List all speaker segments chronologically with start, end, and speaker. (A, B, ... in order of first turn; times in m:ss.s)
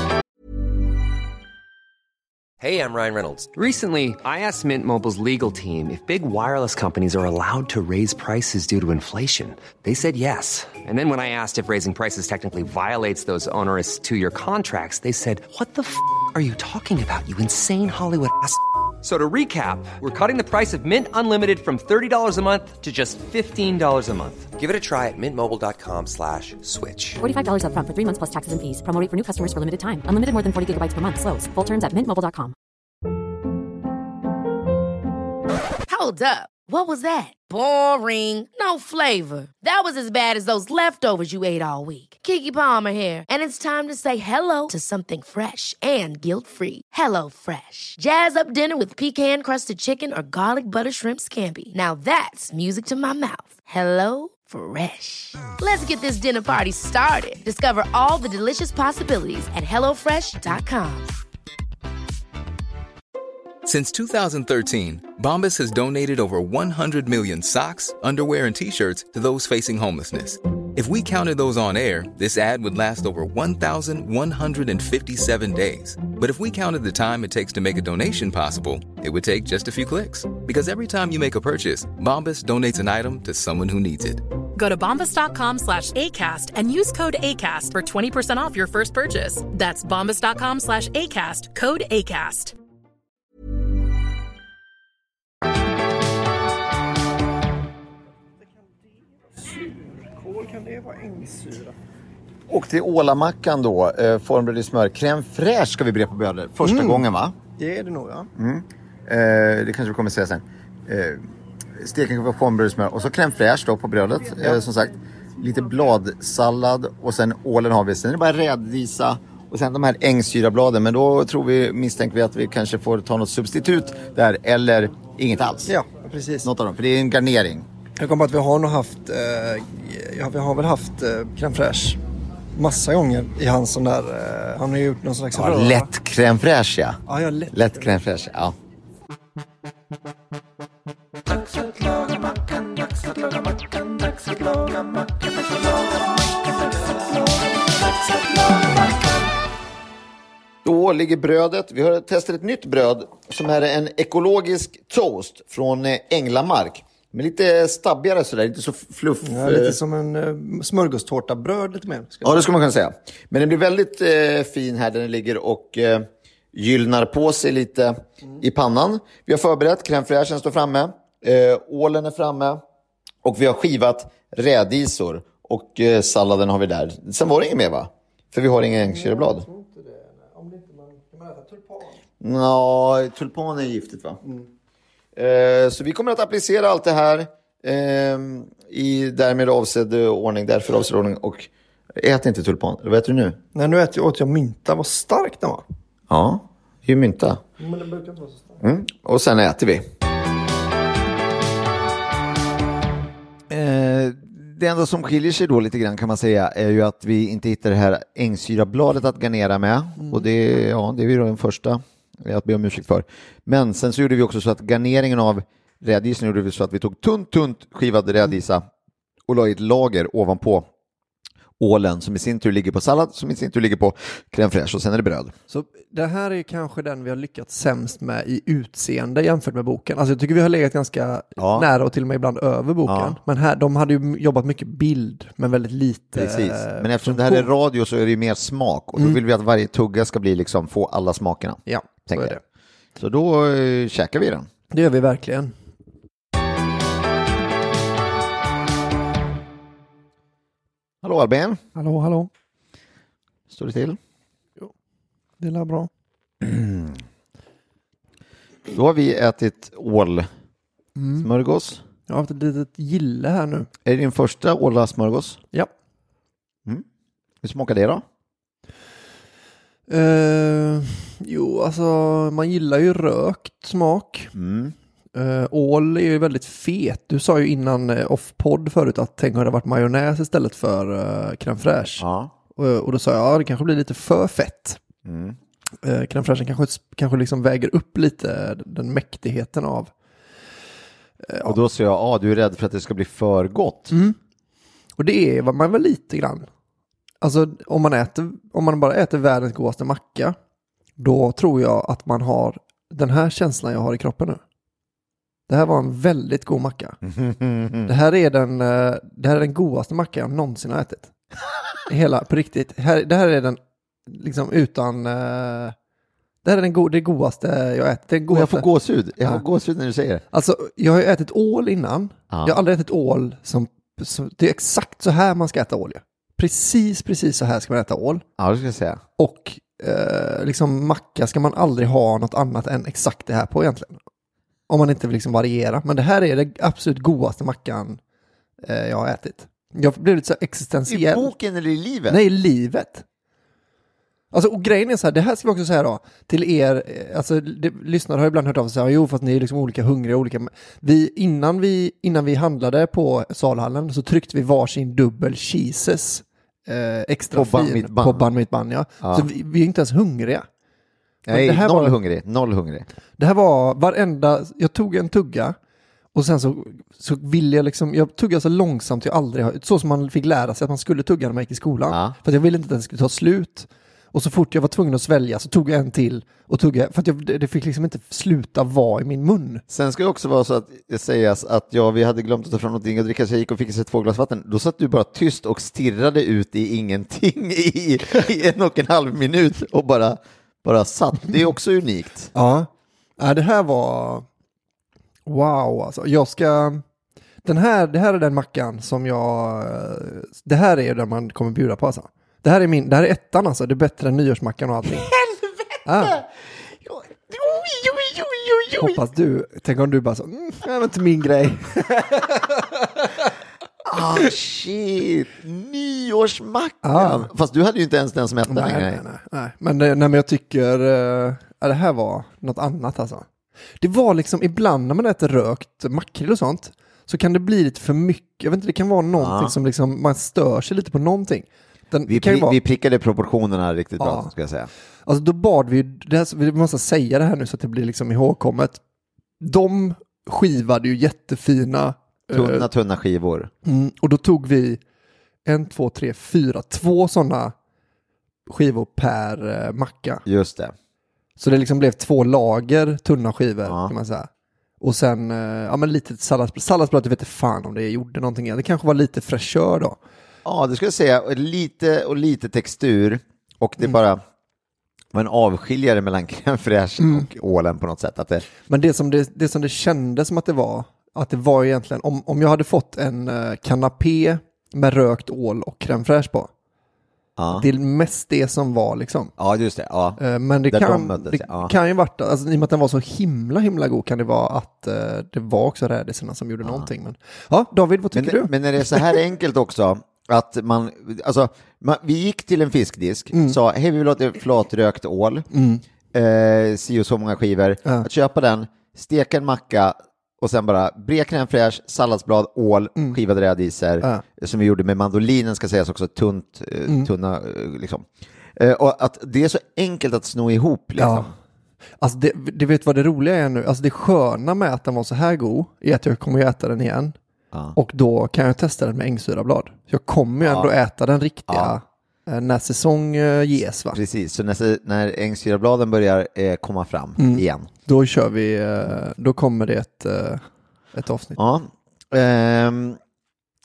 0:02.6-0:27.2 A
0:27.2-0:32.6 B
0:35.9-1:01.1 C
1:03.6-1:24.2 D
1:24.6-1:32.6 E
1:39.4-1:41.8 F
1:42.5-1:47.4 G
1:46.6-1:47.0 F
1:47.6-1:48.3 F
1:48.4-1:51.2 G
1:51.8-2:05.7 G
2:05.7-2:06.5 F
2:06.4-2:07.7 G
2:08.0-2:12.0 F
2:12.6-2:15.9 F
2:15.3-2:18.6 G
2:17.1-2:18.0 F
2:21.4-2:25.6 F
2:26.5-2:27.3 F
2:30.6-2:39.8 G
2:39.2-2:42.4 F
2:42.2-2:52.6 G
2:53.2-2:59.5 G
2:58.8-3:02.0 F
3:02.2-3:04.2 G
3:05.2-3:13.4 G
3:13.6-3:15.6 F
3:16.1-3:17.4 G
3:17.6-3:18.6 F
3:18.6-3:19.9 G
3:23.5-3:38.6 G
3:39.3-3:40.7 G
3:41.6-3:45.3 G
3:45.5-3:57.5 F
3:51.4-3:51.7 G
3:52.8-3:53.2 G
3:56.2-4:02.4 G
4:01.7-4:02.4 F
4:03.0-4:04.5 G
4:04.7-4:05.5 F
4:11.0-4:11.6 G
4:11.8-4:12.3 F
4:13.5-4:14.0 G
4:15.4-4:15.9 F
4:16.4-4:17.0 G
4:18.7-4:20.3 G
4:21.0-4:21.3 F
4:21.2-4:21.8 G
4:22.1-4:23.7 F
4:23.8-4:25.4 G
4:27.4-4:28.0 G
4:29.9-4:34.3 F
4:34.4-4:34.8 G
4:35.2-4:42.0 F
4:42.0-4:42.3 G
4:42.6-4:44.8 F
4:45.0-4:45.4 G
4:45.8-4:49.9 F
4:51.2-4:51.6 F
4:51.4-4:54.0 G
4:53.9-4:54.2 F
4:55.0-4:56.5 F
4:57.2-5:00.4 F
5:01.0-5:04.4 F
5:05.5-5:07.0 F
5:07.0-5:07.9 G
5:07.9-5:11.1 F
5:11.9-5:15.8 F
5:16.4-5:18.7 F
5:18.3-5:20.2 G
5:20.3-5:28.2 F
5:22.3-5:22.6 G
5:28.4-5:29.0 G
5:29.2-5:34.0 F
5:34.7-5:38.0 F
5:38.6-5:41.3 F
5:40.9-5:42.2 G
5:42.1-5:43.0 F
5:44.3-6:00.5 F
5:57.3-5:58.3 G
5:59.0-5:59.3 G
6:01.3-6:02.8 G
6:01.3-6:02.0 F
6:03.2-6:05.6 F
6:06.1-6:19.6 F
6:11.9-6:12.2 G
6:19.7-6:32.3 G
6:32.3-6:34.2 F
6:35.3-6:36.8 F
6:37.4-6:45.1 F
6:45.1-6:45.5 G
6:45.8-6:46.2 F
6:46.8-6:49.0 G
6:48.8-6:53.3 F
6:53.8-6:59.0 G
6:56.8-6:57.3 F
6:58.5-7:03.3 F
7:03.8-7:12.6 F
7:09.2-7:09.6 G
7:12.1-7:14.7 G
7:14.0-7:14.3 F
7:15.1-7:18.8 F
7:19.4-7:22.7 F
7:22.3-7:23.5 G
7:23.6-7:24.8 F
7:25.5-7:27.5 F
7:28.5-7:30.2 F
7:30.3-7:30.7 G
7:31.4-7:34.3 F
7:33.6-7:33.9 G
7:34.8-7:40.0 F
7:40.4-7:44.2 G
7:45.1-7:48.5 G
7:47.0-7:47.3 F
7:48.7-7:56.5 F
7:57.4-7:57.7 G
7:57.5-7:59.3 F
7:59.4-8:01.7 G
8:00.2-8:09.2 F
8:08.1-8:15.5 G
8:13.3-8:13.6 F
8:15.5-8:15.8 F
8:16.1-8:31.3 G
8:31.0-8:31.3 F
8:32.0-8:37.2 F
8:37.5-8:37.8 G
8:37.8-8:44.0 F
8:40.4-8:40.7 G
8:41.5-8:41.8 G
8:43.9-8:47.7 G
8:47.2-8:51.4 F
8:51.4-8:53.0 G